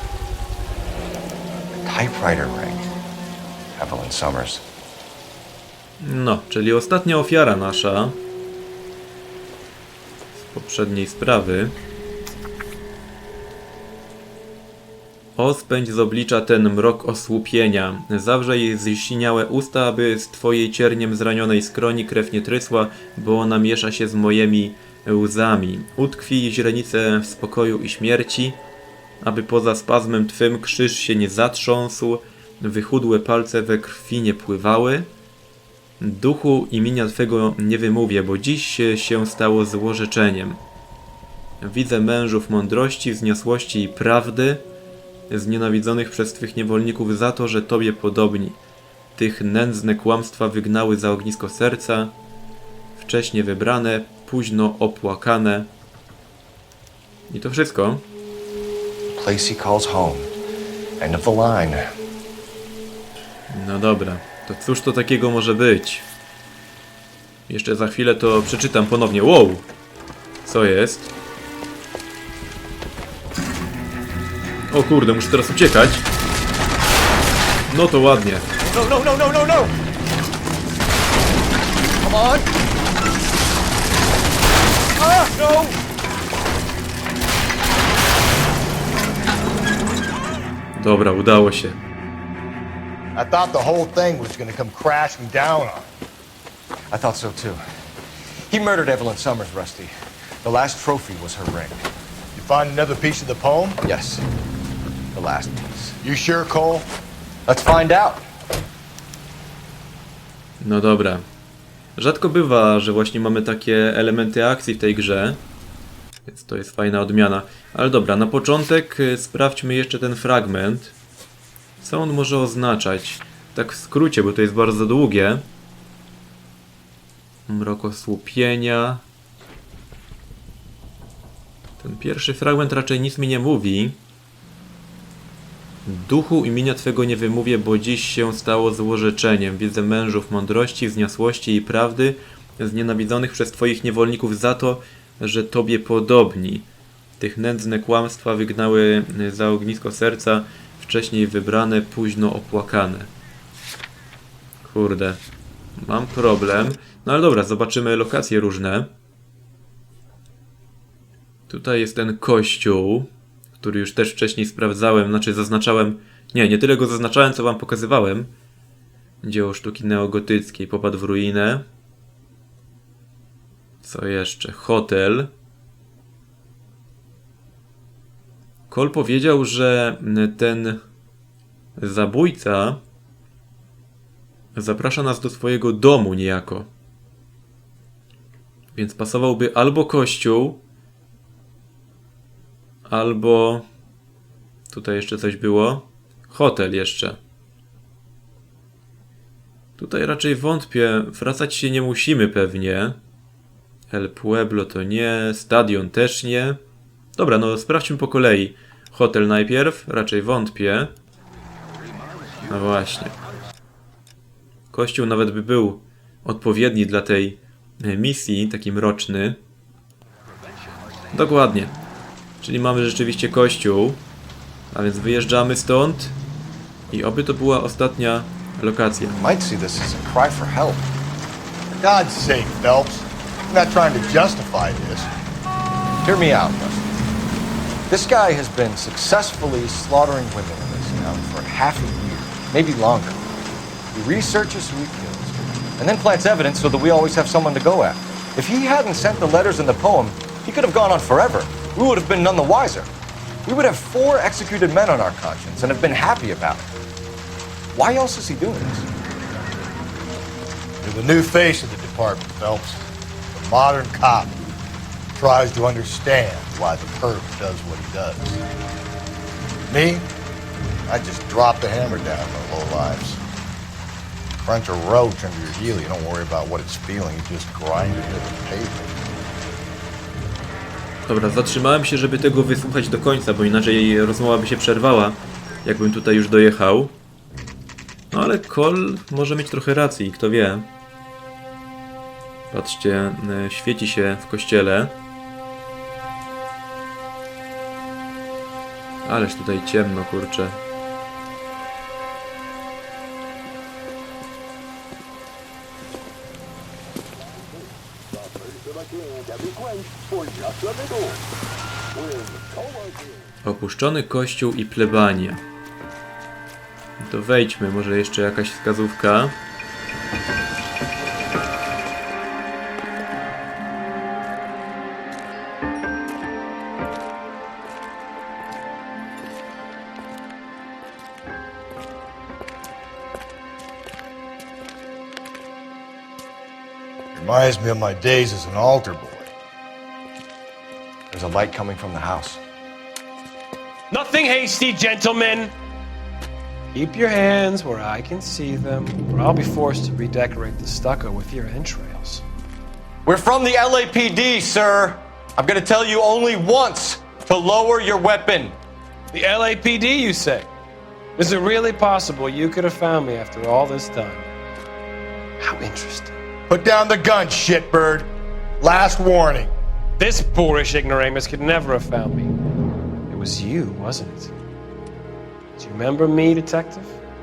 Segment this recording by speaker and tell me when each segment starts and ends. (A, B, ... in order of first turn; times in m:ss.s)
0:01.7-0:02.9 A
0:03.8-0:04.6 A
0:06.0-0:08.2 B
0:10.4-0:11.7 B
0:15.4-0:28.6 B
0:29.2-0:35.1 B
0:36.0-0:40.6 B
0:41.6-0:44.6 B
0:45.3-0:48.6 B
0:49.2-0:52.1 B
0:53.0-0:55.7 B
0:57.3-0:58.0 B
0:59.1-1:00.3 A
1:01.0-1:01.9 A
1:03.5-1:06.0 B
1:07.5-1:09.6 B
1:10.4-1:11.1 B
1:14.7-1:16.0 B
1:17.7-1:18.4 B
1:18.6-1:19.7 A
1:22.0-1:22.5 A
1:25.0-1:25.8 A
1:30.8-1:31.8 B
1:33.1-1:35.9 C
1:36.9-1:37.6 A
1:38.5-1:41.9 A
1:42.3-1:43.8 C
1:43.8-1:44.2 A
1:45.1-1:46.0 A
1:46.0-1:46.9 C
1:47.4-1:48.2 A
1:50.6-1:51.2 B
1:52.0-1:55.4 B
1:56.3-2:00.9 B
2:01.8-2:05.4 B
2:07.5-2:09.0 B
2:11.8-2:14.0 B
2:15.8-2:26.7 B
2:27.2-2:33.1 B
2:34.6-2:35.2 B
2:35.8-2:38.9 B
2:41.5-2:43.1 B
2:43.6-2:48.3 B
2:49.2-2:51.6 B
2:53.8-2:55.3 B
2:58.7-3:00.8 B
3:01.8-3:02.8 B
3:04.5-3:06.7 B
3:08.8-3:10.6 B
3:12.9-3:13.6 B
3:14.7-3:17.2 B
3:19.8-3:23.0 B
3:23.9-3:26.6 B
3:27.2-3:30.9 B
3:32.5-3:33.2 B
3:34.7-3:39.4 B
3:41.1-3:41.8 B
3:42.4-3:44.0 B
3:44.7-3:46.2 B
3:46.9-3:49.2 B
3:49.1-3:50.9 A
3:51.8-3:55.1 C
3:56.0-3:57.0 A
3:57.9-4:03.2 A
4:03.9-4:12.9 A
4:13.4-4:16.7 A
4:17.7-4:18.9 A
4:20.8-4:24.5 C
4:25.2-4:28.4 C
4:29.7-4:30.0 C
4:30.9-4:33.2 C
4:34.4-4:38.9 C
4:41.0-4:46.9 B
4:48.1-4:50.6 B
4:52.5-4:54.9 B
4:59.0-5:00.6 B
5:13.4-5:15.4 B
5:17.0-5:19.4 B
5:37.1-5:39.3 C
5:41.1-5:42.4 A
5:43.9-5:45.5 D
5:46.7-5:52.2 D
5:53.0-5:58.6 A
5:59.1-6:00.5 D
6:01.2-6:04.3 D
6:05.4-6:06.1 D
6:06.5-6:09.5 C
6:10.0-6:12.3 D
6:13.1-6:14.3 D
6:15.6-6:17.0 D